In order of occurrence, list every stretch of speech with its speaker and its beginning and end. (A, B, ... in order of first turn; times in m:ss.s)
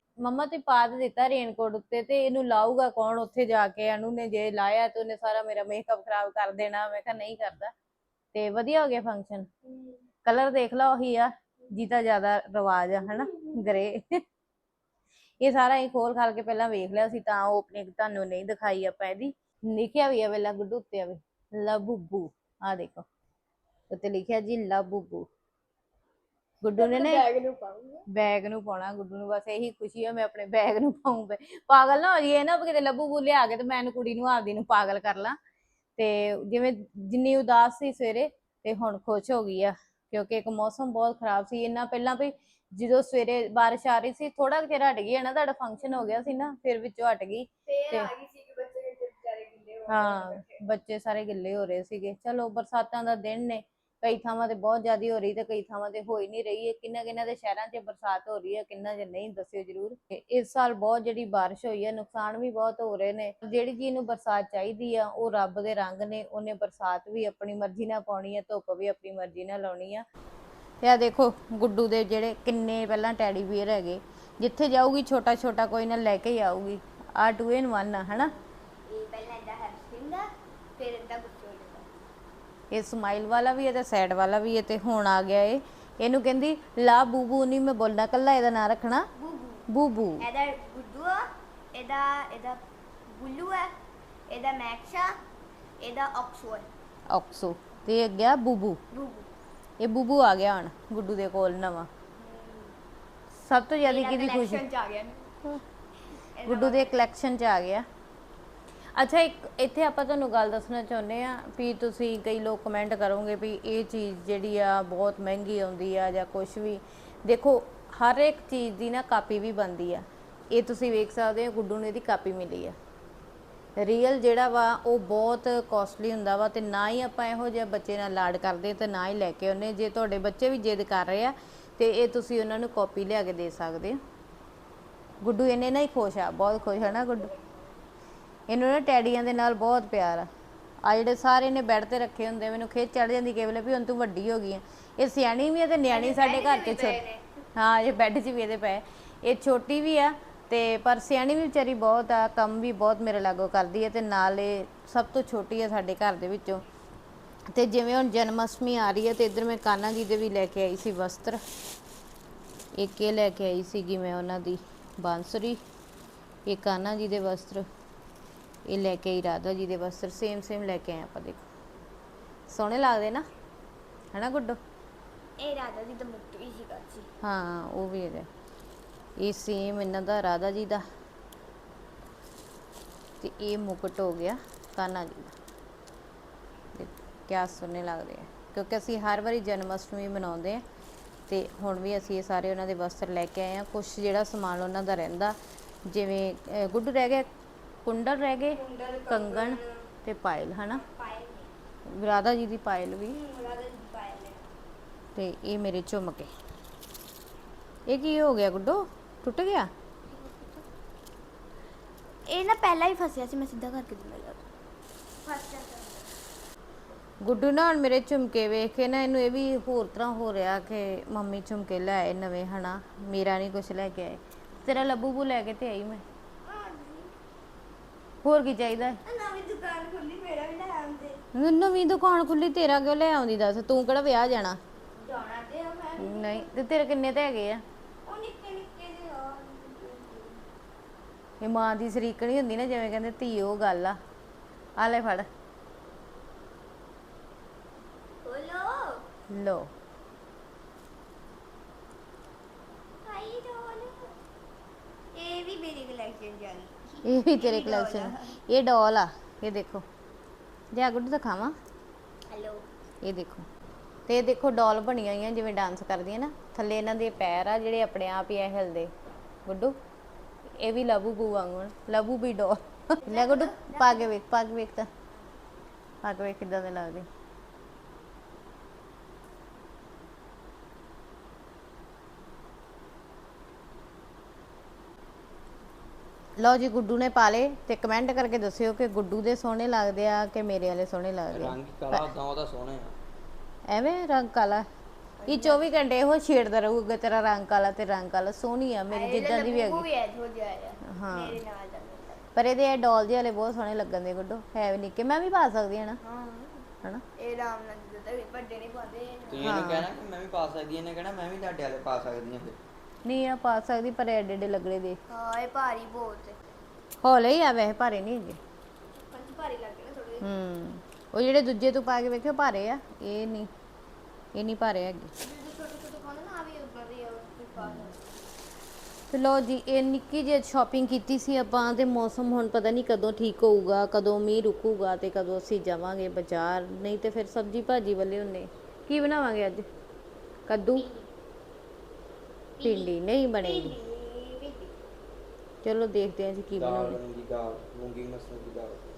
0:00.2-0:07.7 A
0:08.3-0:09.5 A
0:09.7-0:10.0 B
0:10.2-0:14.2 A
0:15.4-0:23.0 A
0:23.9-0:25.3 A
0:26.6-0:27.2 A
0:26.8-0:28.0 B
0:28.1-0:35.4 A
0:36.0-0:48.1 A
0:47.7-0:50.6 B
0:49.9-1:10.1 A
1:10.8-1:18.3 A
1:18.9-1:21.9 B
1:22.7-1:29.1 A
1:29.2-1:29.7 B
1:29.7-1:30.2 A
1:30.2-1:33.7 B
1:34.3-1:35.2 B
1:35.8-1:36.7 B
1:37.1-1:38.8 A
1:38.9-1:39.3 B
1:39.8-1:41.9 A
1:42.2-1:42.8 B
1:43.4-1:44.6 A
1:43.8-1:45.3 B
1:46.4-1:46.9 B
1:46.5-1:47.9 A
1:49.0-2:02.8 A
2:03.8-2:14.0 A
2:15.2-2:17.3 A
2:18.5-2:20.3 A
2:20.8-2:27.0 A
2:25.9-2:27.2 B
2:27.6-2:36.6 A
2:37.5-2:41.4 A
2:42.8-2:45.6 A
2:46.5-2:47.6 A
2:48.7-2:51.4 A
2:52.5-2:53.3 A
2:54.1-2:54.6 A
2:55.4-2:57.1 B
2:57.2-2:58.3 A
2:59.2-3:00.8 A
3:03.2-3:05.4 A
3:06.7-3:10.6 A
3:11.3-3:17.3 A
3:17.8-3:20.8 A
3:18.5-3:19.9 B
3:20.7-3:21.5 B
3:21.9-3:23.2 A
3:23.1-3:24.5 B
3:25.2-3:26.3 A
3:27.9-3:29.7 A
3:30.1-3:30.6 B
3:32.3-3:34.4 B
3:35.2-3:36.1 B
3:37.2-3:46.0 A
3:46.4-3:47.1 B
3:48.2-3:49.0 A
3:49.1-3:51.2 B
3:51.4-3:54.6 A
3:55.0-3:56.5 B
3:56.0-3:57.6 A
3:58.1-4:00.4 B
4:01.4-4:04.0 A
4:04.8-4:05.3 A
4:08.2-4:09.0 B
4:09.3-4:09.7 A
4:13.0-4:14.1 B
4:15.1-4:18.3 B
4:17.0-4:19.8 A
4:20.7-4:21.6 A
4:22.3-4:22.6 B
4:23.0-4:23.5 A
4:24.1-4:28.9 A
4:29.5-4:29.8 A
4:30.6-4:34.9 A
4:33.0-4:34.1 B
4:36.0-4:37.1 A
4:46.4-4:52.1 A
4:51.3-4:53.0 C
4:53.7-4:54.7 A
4:55.2-4:55.7 B
4:55.3-4:59.9 A
4:58.9-5:02.2 B
5:00.9-5:01.4 A
5:02.4-5:06.0 A
5:06.0-5:06.7 B
5:07.2-5:09.6 B
5:09.3-5:12.6 C
5:09.4-5:09.9 A
5:13.0-5:15.0 A
5:15.1-5:16.4 B
5:17.0-5:18.4 A
5:19.0-5:20.3 B
5:20.2-5:23.5 A
5:24.4-5:25.1 A
5:25.2-5:28.0 B
5:27.6-5:27.9 A
5:29.1-5:39.7 A
5:40.5-5:40.9 A
5:40.8-5:41.1 B
5:42.6-5:44.8 B
5:42.6-5:43.8 A
5:45.6-5:47.0 A
5:46.5-5:48.8 C